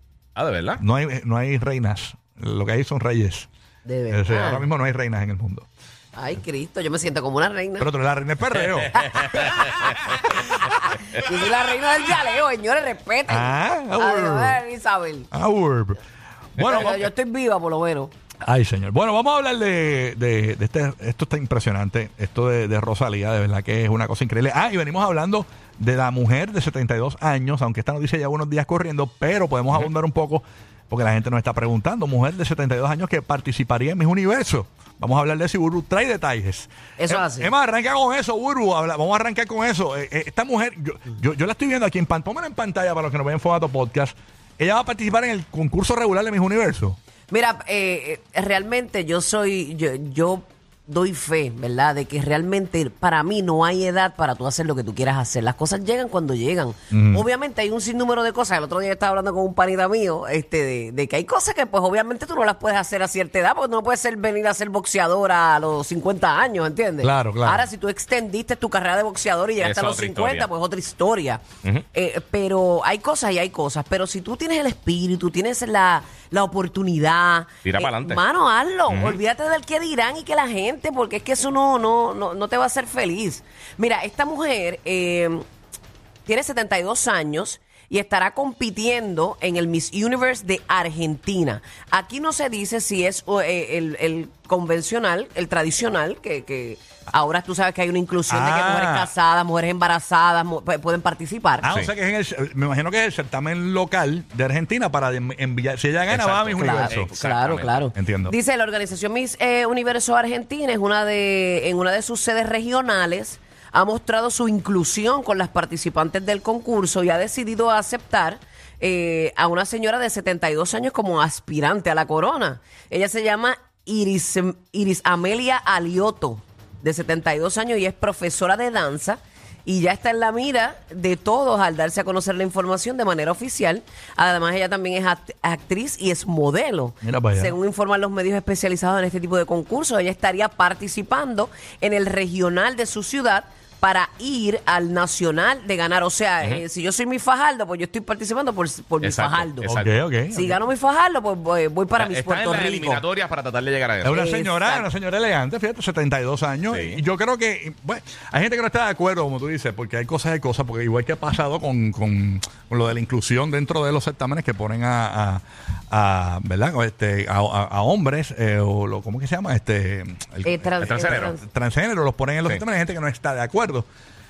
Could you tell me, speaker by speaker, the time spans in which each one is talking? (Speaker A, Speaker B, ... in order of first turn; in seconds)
Speaker A: 0.4-0.8, 8.7-9.9, 69.6-70.5, 77.7-78.2, 78.9-79.2, 106.1-107.7, 149.0-150.0, 152.0-154.2, 156.7-157.0, 170.8-171.3
Speaker B: 0.8-3.5, 4.1-5.7, 7.8-10.2, 13.3-14.6, 15.3-16.0, 16.6-17.1, 18.4-47.0, 56.9-57.2, 67.0-67.7, 98.3-99.1, 101.6-107.1, 108.0-108.3, 137.0-137.6, 149.8-150.6, 154.0-173.9
Speaker C: 3.9-4.7, 6.2-7.9, 8.9-15.3, 16.6-18.1, 37.0-37.5, 47.3-71.4, 71.9-85.5, 86.3-101.7, 106.5-149.7, 150.3-153.0, 154.1-154.9, 170.4-171.4